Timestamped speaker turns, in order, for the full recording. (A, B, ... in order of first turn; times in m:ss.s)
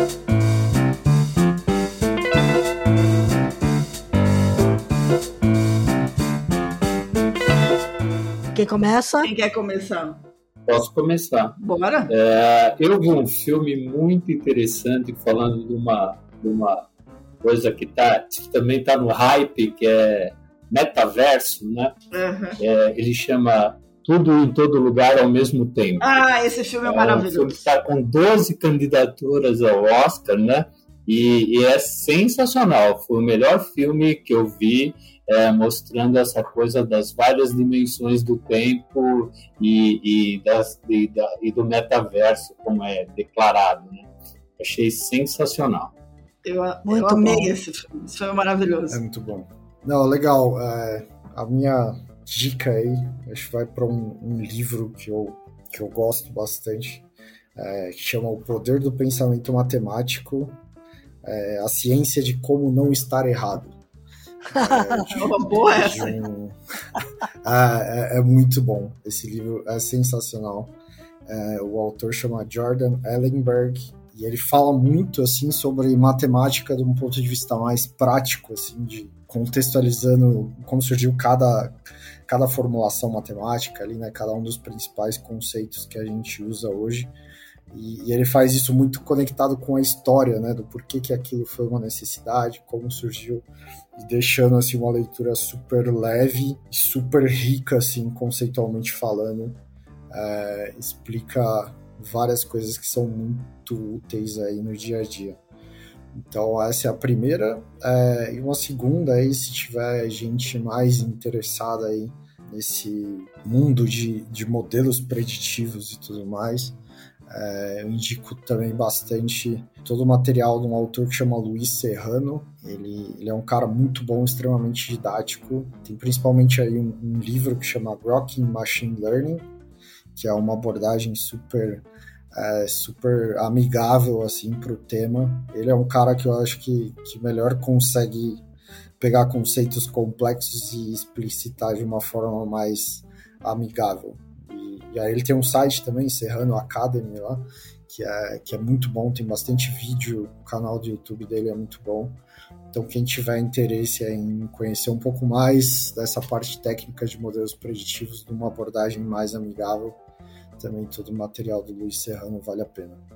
0:08.6-0:09.3 A
0:09.2-0:10.2 B
0:10.7-0:16.9 C
0:11.6-0:12.1 B
0:17.4-0:22.0 C
0:22.1-0:22.6 B
0:22.6-0:26.1 C
0:26.0-0:27.6 B
0:26.8-0:45.9 C
0:46.4-0:49.0 B
0:46.9-0:47.5 A
0:48.9-0:57.0 D
0:57.6-1:00.6 D
1:01.2-1:03.8 D
1:04.5-1:06.6 D
1:04.6-1:05.2 A
1:05.2-1:06.2 B
1:07.4-1:10.7 D
1:11.3-1:27.1 D
1:27.7-1:45.4 D
1:46.2-2:09.5 D
2:10.2-2:18.4 D
2:19.0-2:32.2 D
2:32.7-2:40.0 D
2:40.6-2:43.0 D